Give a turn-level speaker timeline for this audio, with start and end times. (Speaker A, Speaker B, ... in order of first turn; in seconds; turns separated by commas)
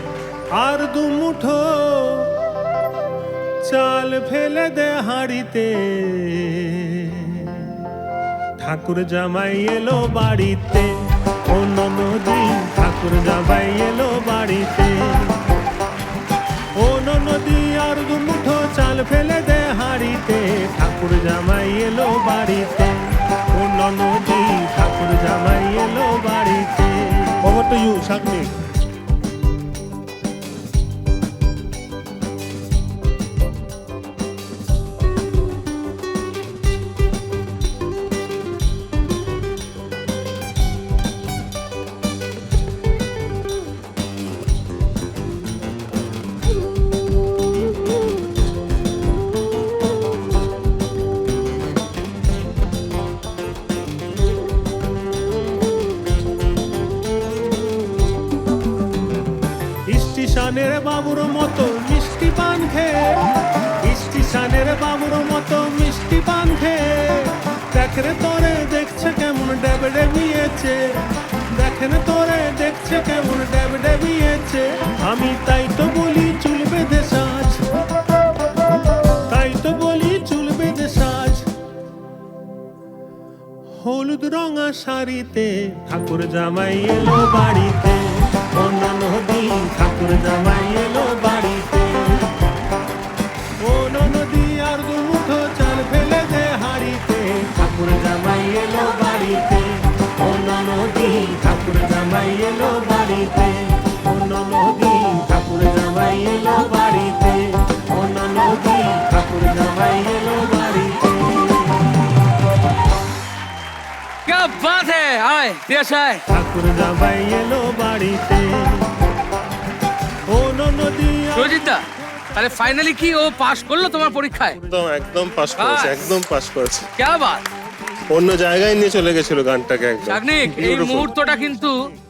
Speaker A: 0.6-2.3, Speaker A: 3.6-7.8, Speaker A: 8.6-10.9, Speaker A: 11.5-15.4, Speaker A: 16.8-27.5, Speaker B: 27.4-28.5, Speaker A: 59.9-63.3, Speaker A: 63.8-70.8, Speaker A: 71.5-77.6, Speaker A: 79.3-81.5, Speaker A: 83.8-92.3, Speaker A: 93.6-111.9, Speaker C: 114.2-116.2, Speaker A: 116.3-118.9, Speaker A: 120.3-121.7, Speaker C: 121.3-121.8, Speaker C: 122.3-124.6, Speaker B: 124.6-126.9, Speaker C: 125.6-126.0, Speaker C: 127.0-127.4, Speaker B: 128.1-131.1, Speaker C: 130.0-131.7